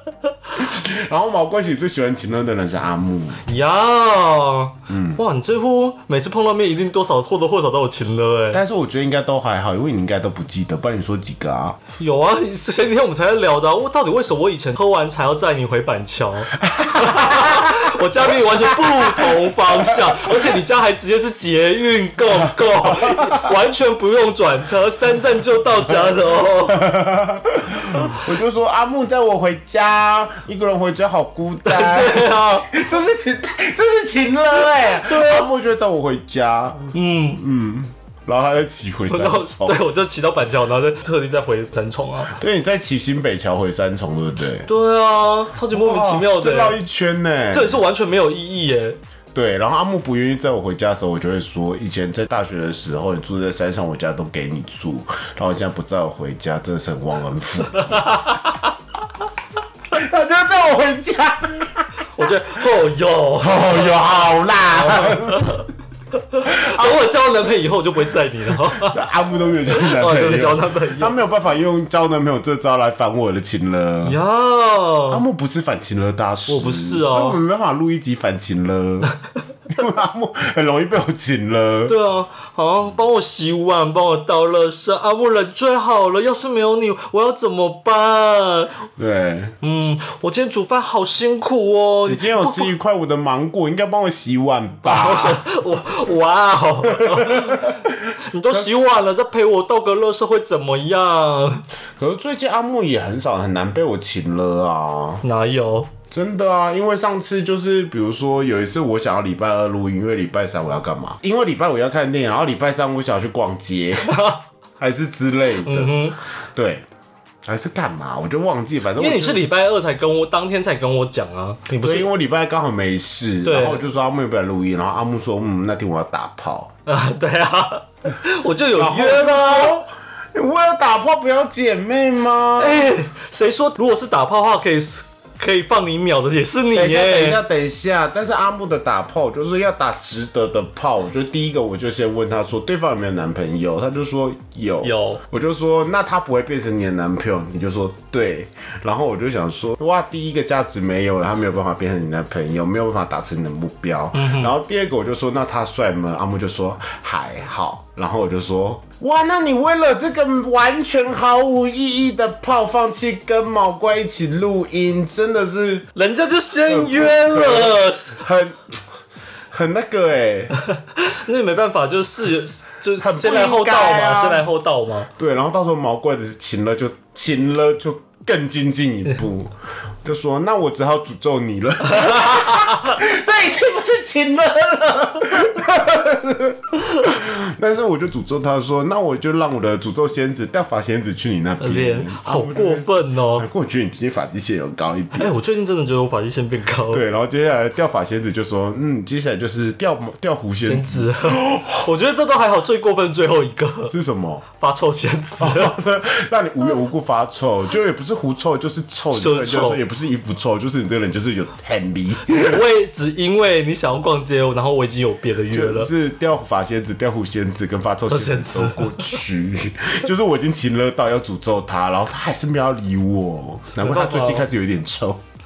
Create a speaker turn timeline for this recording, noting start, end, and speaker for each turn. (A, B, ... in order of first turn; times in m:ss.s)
0:00.5-0:03.4 A
0:03.4-0:08.6 B
0:04.9-0:05.2 A
0:08.5-0:11.8 A
0:12.0-0:26.9 B
0:16.6-0:20.6 A
0:22.3-0:23.5 A
0:26.7-0:39.8 A
0:27.9-0:28.2 B
0:31.6-0:32.7 B
0:34.7-0:35.5 B
0:36.9-0:37.4 B
0:39.1-0:42.4 B
0:42.3-0:44.7 A
0:44.6-0:46.8 B
0:45.7-0:47.8 A
0:47.5-0:49.0 B
0:49.3-0:58.2 A
0:57.8-0:58.7 B
0:59.9-1:02.3 A
1:02.0-1:04.1 B
1:03.4-1:05.6 A
1:04.7-1:09.0 B
1:06.4-1:07.1 A
1:08.6-1:14.2 A
1:09.7-1:11.1 B
1:14.0-1:15.2 B
1:15.1-1:19.1 A
1:16.5-1:17.4 B
1:19.7-1:22.0 A
1:21.9-1:28.8 B
1:29.0-1:29.6 A
1:29.6-1:32.7 B
1:32.1-1:35.4 A
1:34.8-1:41.6 B
1:36.9-1:38.7 A
1:42.0-1:45.2 A
1:45.2-1:45.9 B
1:46.1-1:54.1 A
1:54.0-1:54.4 B
1:54.8-1:56.8 A
1:55.6-1:56.2 B
1:57.4-1:59.4 A
1:59.0-2:02.1 B
2:01.8-2:06.7 A
2:03.4-2:03.8 B
2:06.8-2:09.8 B
2:08.8-2:12.9 A
2:12.6-2:17.4 B
2:16.7-2:45.9 A
2:24.8-2:25.2 B
2:34.1-2:34.5 B
2:45.9-2:48.2 B
2:46.6-2:48.8 A
2:49.5-2:50.5 A
2:50.9-2:55.1 B
2:53.0-2:54.5 A
2:55.1-3:15.3 A
3:01.9-3:03.0 B
3:11.6-3:13.5 B
3:15.2-3:17.0 B
3:16.9-3:21.9 A
3:20.6-3:23.9 B
3:23.9-3:24.4 A
3:24.6-3:25.7 B
3:25.4-3:32.6 A
3:29.1-3:29.8 B
3:32.3-3:35.9 B
3:35.5-3:45.2 A
3:38.1-3:39.2 B
3:43.8-3:44.5 B